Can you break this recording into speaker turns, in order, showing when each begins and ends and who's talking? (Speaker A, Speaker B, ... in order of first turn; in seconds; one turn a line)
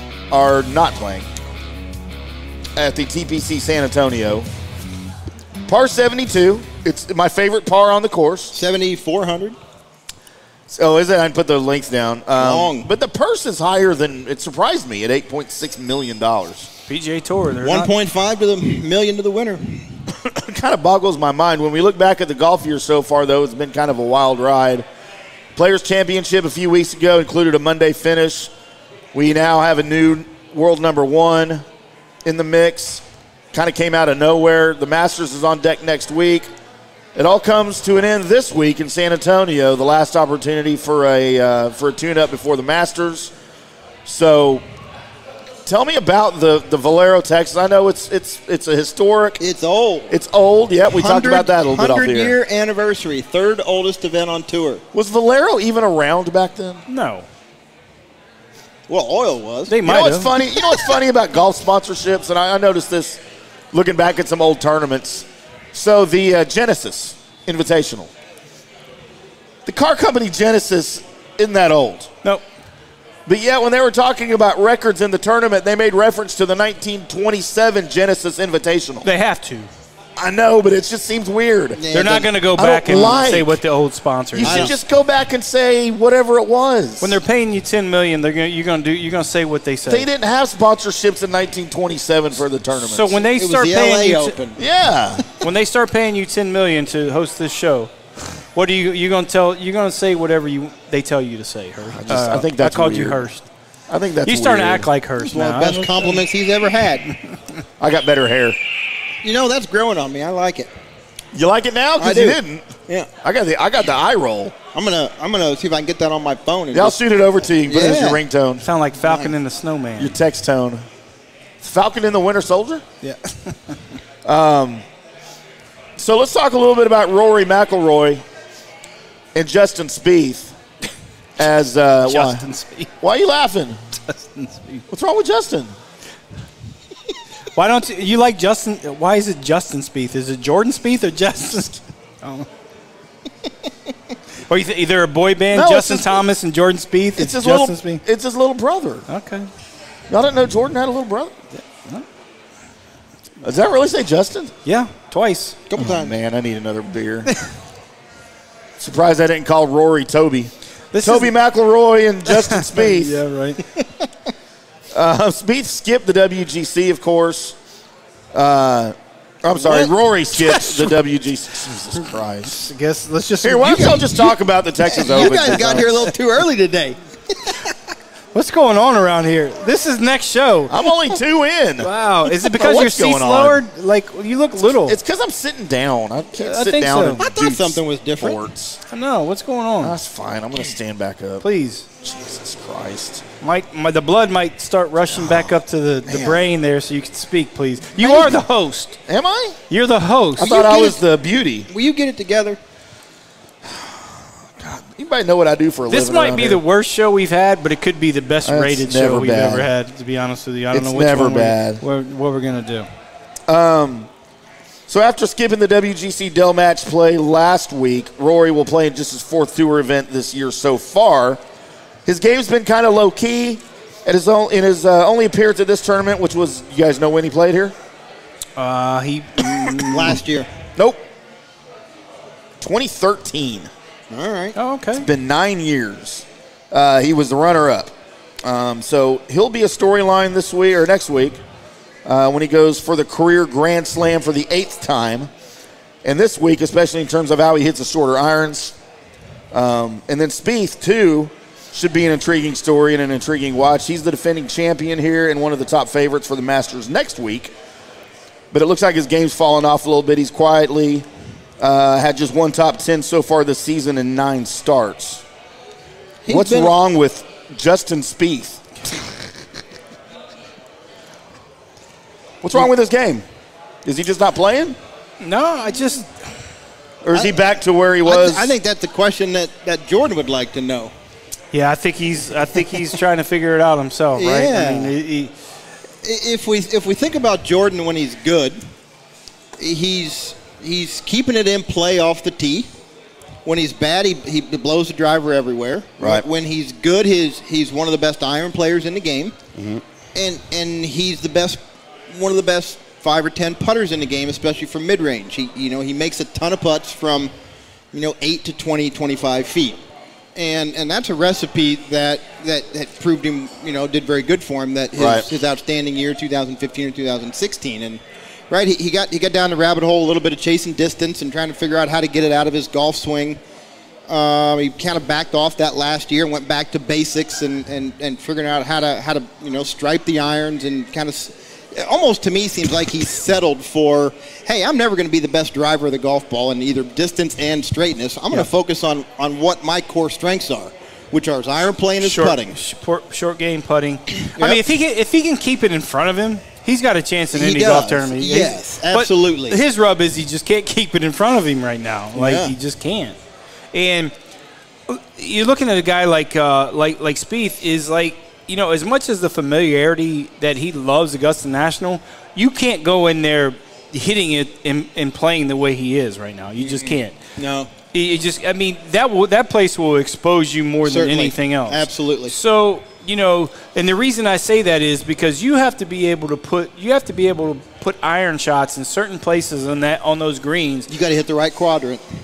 Speaker A: 0.3-1.3
Speaker A: 2.8-4.5
Speaker A: 5.7-8.5
Speaker B: 8.5-9.6
Speaker A: 10.7-16.7
Speaker B: 12.4-12.9
Speaker C: 16.9-17.9
Speaker B: 17.6-19.9
Speaker A: 20.1-24.9
Speaker A: 25.6-28.5
Speaker A: 29.1-31.6
Speaker A: 32.2-36.5
Speaker A: 37.1-43.3
Speaker A: 44.0-44.6
Speaker A: 45.7-49.4
Speaker B: 49.4-50.1
Speaker A: 50.1-52.3
Speaker B: 50.9-54.8
Speaker A: 54.9-56.8
Speaker C: 56.9-57.3
Speaker B: 58.9-59.8
Speaker C: 59.7-60.3
Speaker A: 59.8-63.2
Speaker A: 63.7-68.1
Speaker A: 69.7-72.1
Speaker A: 73.3-79.1
Speaker C: 79.0-79.7
Speaker A: 80.2-81.8
Speaker B: 81.8-82.3
Speaker C: 81.9-84.7
Speaker A: 82.6-83.6
Speaker B: 83.0-83.3
Speaker A: 84.3-87.2
Speaker B: 84.4-84.7
Speaker C: 87.0-90.1
Speaker A: 89.9-93.2
Speaker C: 92.8-94.4
Speaker B: 93.3-94.6
Speaker A: 94.6-95.3
Speaker C: 95.4-97.9
Speaker C: 98.5-103.4
Speaker A: 101.9-103.3
Speaker A: 103.9-104.9
Speaker C: 104.2-106.2
Speaker B: 105.2-107.1
Speaker A: 107.8-108.6
Speaker B: 109.2-110.7
Speaker A: 111.3-112.7
Speaker B: 112.0-113.1
Speaker A: 113.2-114.5
Speaker B: 114.6-117.0
Speaker A: 116.7-118.6
Speaker B: 117.6-118.2
Speaker C: 118.6-120.1
Speaker B: 119.0-119.3
Speaker A: 120.0-120.9
Speaker A: 121.6-122.8
Speaker A: 124.2-124.8
Speaker A: 126.0-128.2
Speaker A: 129.3-130.6
Speaker A: 131.4-132.4
Speaker C: 132.1-132.9
Speaker A: 133.0-133.8
Speaker C: 134.1-134.8
Speaker A: 134.9-135.7
Speaker C: 137.6-142.5
Speaker C: 144.5-148.0
Speaker A: 145.5-146.2
Speaker A: 147.2-149.1
Speaker C: 149.1-149.5
Speaker A: 150.1-151.3
Speaker A: 153.4-154.5
Speaker C: 154.7-155.6
Speaker B: 155.7-156.1
Speaker A: 155.8-157.3
Speaker A: 158.8-163.2
Speaker C: 160.9-161.3
Speaker C: 162.3-163.6
Speaker B: 163.8-164.1
Speaker A: 164.9-167.6
Speaker A: 168.3-172.6
Speaker B: 169.6-169.9
Speaker C: 172.5-174.1
Speaker A: 173.4-175.9
Speaker B: 173.7-174.3
Speaker B: 174.9-177.7
Speaker C: 175.1-175.8
Speaker C: 178.3-180.7
Speaker A: 180.7-183.6
Speaker C: 181.8-185.0
Speaker A: 184.9-188.8
Speaker C: 186.4-187.2
Speaker B: 187.2-188.4
Speaker C: 188.9-190.0
Speaker A: 189.8-191.4
Speaker C: 191.4-191.9
Speaker A: 192.0-193.2
Speaker C: 193.4-199.0
Speaker B: 196.1-196.4
Speaker B: 198.0-198.4
Speaker A: 199.1-199.6
Speaker C: 199.7-200.6
Speaker A: 200.4-201.7
Speaker B: 200.4-201.0
Speaker B: 201.7-202.6
Speaker A: 203.7-204.1
Speaker A: 204.6-206.6
Speaker C: 205.9-212.9
Speaker A: 208.4-209.7
Speaker A: 210.7-211.8
Speaker A: 213.5-214.1
Speaker A: 214.9-221.4
Speaker A: 222.1-227.8
Speaker C: 228.6-230.2
Speaker B: 229.8-230.5
Speaker A: 232.6-233.7
Speaker B: 234.1-234.6
Speaker C: 234.6-235.1
Speaker A: 235.0-241.4
Speaker A: 242.1-245.3
Speaker A: 246.0-248.8
Speaker A: 249.5-257.5
Speaker A: 258.5-261.1
Speaker A: 261.6-265.2
Speaker B: 266.2-266.7
Speaker A: 266.3-268.6
Speaker A: 272.4-273.2
Speaker A: 273.9-274.8
Speaker C: 275.2-276.1
Speaker A: 277.0-278.5
Speaker B: 277.1-277.4
Speaker B: 278.0-280.9
Speaker C: 281.5-285.3
Speaker B: 284.2-285.0
Speaker B: 286.0-288.6
Speaker B: 289.6-292.7
Speaker B: 293.4-299.4
Speaker A: 296.0-296.2
Speaker A: 299.6-299.8
Speaker B: 300.1-307.3
Speaker B: 307.9-309.8
Speaker B: 310.4-323.4
Speaker A: 315.0-315.3
Speaker B: 324.1-342.6
Speaker C: 342.0-353.2
Speaker B: 344.4-344.6
Speaker B: 347.3-349.6
Speaker B: 352.1-352.5
Speaker C: 353.7-354.1
Speaker C: 354.9-367.2
Speaker B: 366.6-367.7
Speaker C: 367.9-380.9
Speaker B: 370.8-372.4
Speaker B: 380.9-382.0